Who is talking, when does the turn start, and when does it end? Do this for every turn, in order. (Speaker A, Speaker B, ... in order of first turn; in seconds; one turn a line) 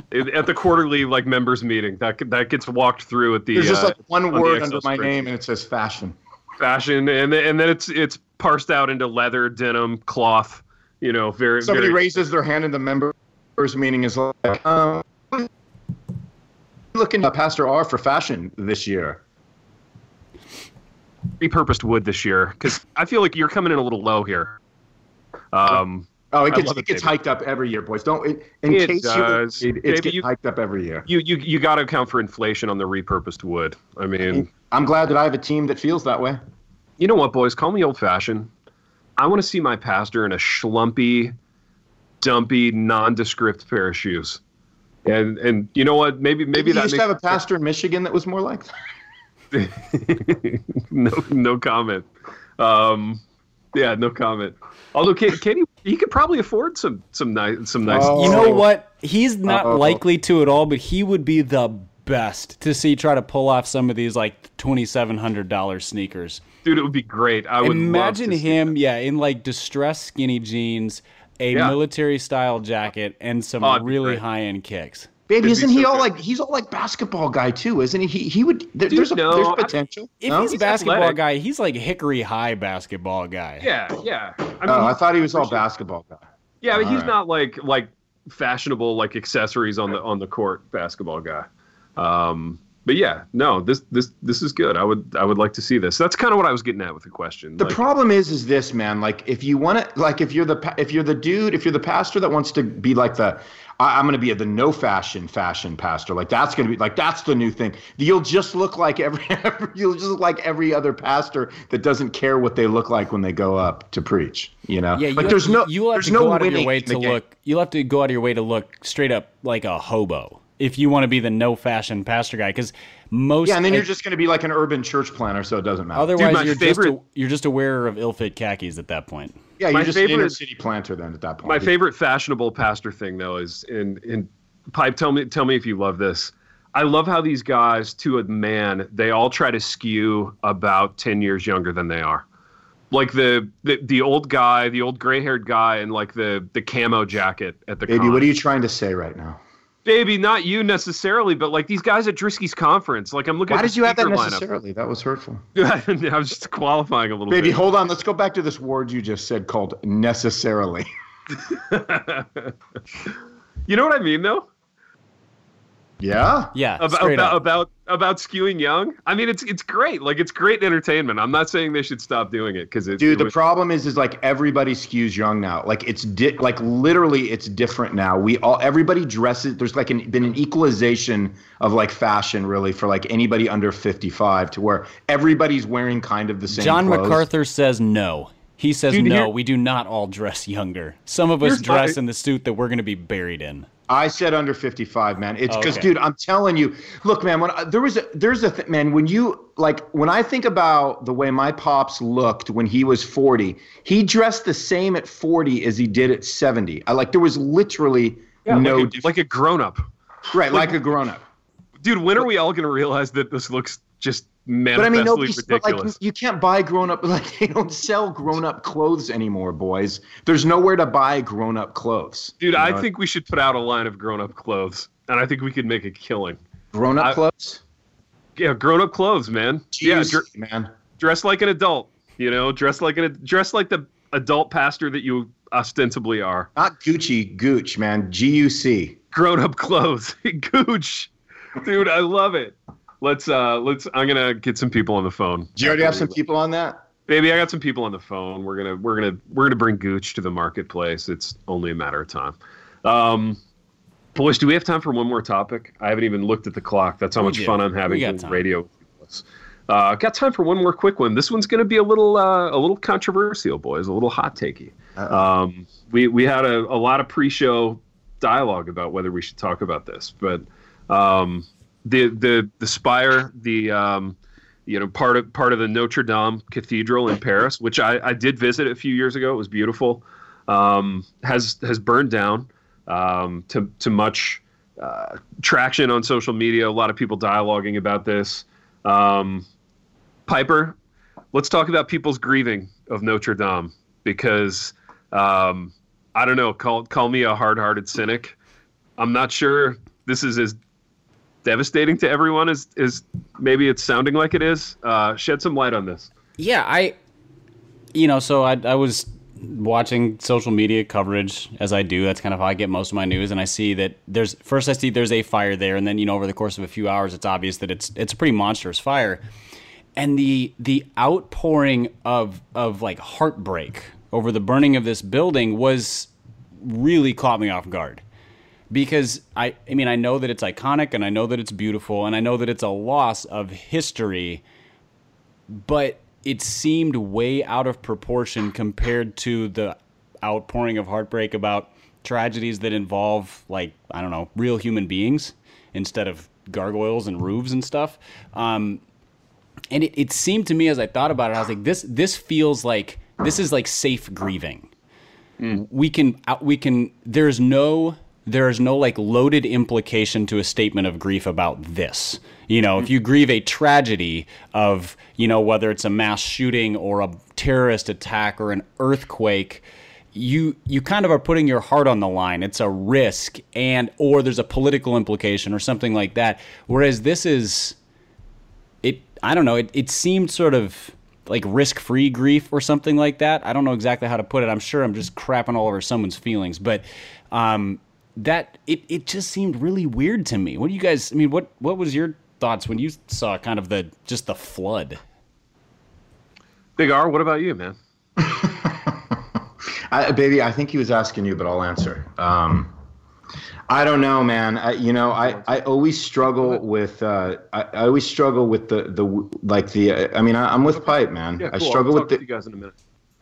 Speaker A: 0.1-5.3
Speaker B: 3.5-6.2
Speaker A: 6.6-12.2
Speaker B: 11.6-15.5
Speaker B: 16.9-19.2
Speaker A: 21.4-24.6
Speaker A: 25.5-27.1
Speaker B: 26.3-31.1
Speaker A: 28.7-30.2
Speaker A: 31.1-34.5
Speaker B: 34.3-36.4
Speaker A: 37.0-38.5
Speaker A: 39.2-41.3
Speaker A: 42.2-44.4
Speaker A: 45.0-47.4
Speaker B: 46.5-48.7
Speaker A: 49.5-53.2
Speaker A: 53.7-58.6
Speaker B: 57.9-58.6
Speaker C: 58.1-66.4
Speaker B: 59.5-60.0
Speaker A: 66.6-68.7
Speaker C: 67.6-75.1
Speaker A: 73.6-74.2
Speaker B: 75.3-80.5
Speaker A: 75.4-76.1
Speaker A: 78.9-79.7
Speaker C: 80.2-83.7
Speaker A: 80.3-81.2
Speaker A: 83.6-85.6
Speaker B: 84.7-87.1
Speaker A: 86.6-91.5
Speaker A: 92.0-97.8
Speaker B: 97.6-117.2
Speaker C: 114.9-123.9
Speaker B: 123.4-126.4
Speaker C: 125.9-129.4
Speaker A: 126.2-126.9
Speaker B: 129.6-131.7
Speaker A: 129.7-130.4
Speaker A: 131.4-142.2
Speaker A: 142.9-148.2
Speaker B: 147.9-149.4
Speaker A: 149.8-154.4
Speaker B: 153.5-155.4
Speaker A: 155.5-157.6
Speaker B: 157.3-160.9
Speaker A: 161.3-162.5
Speaker A: 163.7-164.4
Speaker B: 166.0-166.5
Speaker C: 166.5-167.4
Speaker A: 166.8-173.3
Speaker B: 173.0-187.2
Speaker C: 186.5-193.7
Speaker A: 188.9-189.3
Speaker A: 191.4-192.0
Speaker B: 193.9-209.1
Speaker C: 195.5-195.9
Speaker A: 208.4-209.8
Speaker B: 210.3-211.2
Speaker A: 211.8-215.9
Speaker B: 214.7-222.8
Speaker A: 222.4-226.4
Speaker B: 226.7-227.6
Speaker A: 228.4-230.2
Speaker B: 229.7-230.7
Speaker A: 231.0-236.5
Speaker B: 236.6-239.0
Speaker A: 239.1-246.1
Speaker B: 245.6-246.8
Speaker A: 247.1-253.4
Speaker A: 254.1-274.1
Speaker C: 257.1-258.4
Speaker B: 265.0-265.2
Speaker A: 274.7-289.4
Speaker A: 290.3-290.7
Speaker A: 291.3-298.4
Speaker A: 299.0-300.6
Speaker A: 301.4-306.1
Speaker C: 306.4-306.9
Speaker C: 307.9-319.2
Speaker C: 320.0-328.0
Speaker C: 328.7-334.4
Speaker C: 335.5-348.8
Speaker C: 349.7-354.7
Speaker C: 355.5-377.8
Speaker C: 378.8-395.0
Speaker A: 396.8-397.8
Speaker B: 398.2-399.2
Speaker B: 399.9-402.7
Speaker B: 403.7-412.2
Speaker A: 410.7-412.7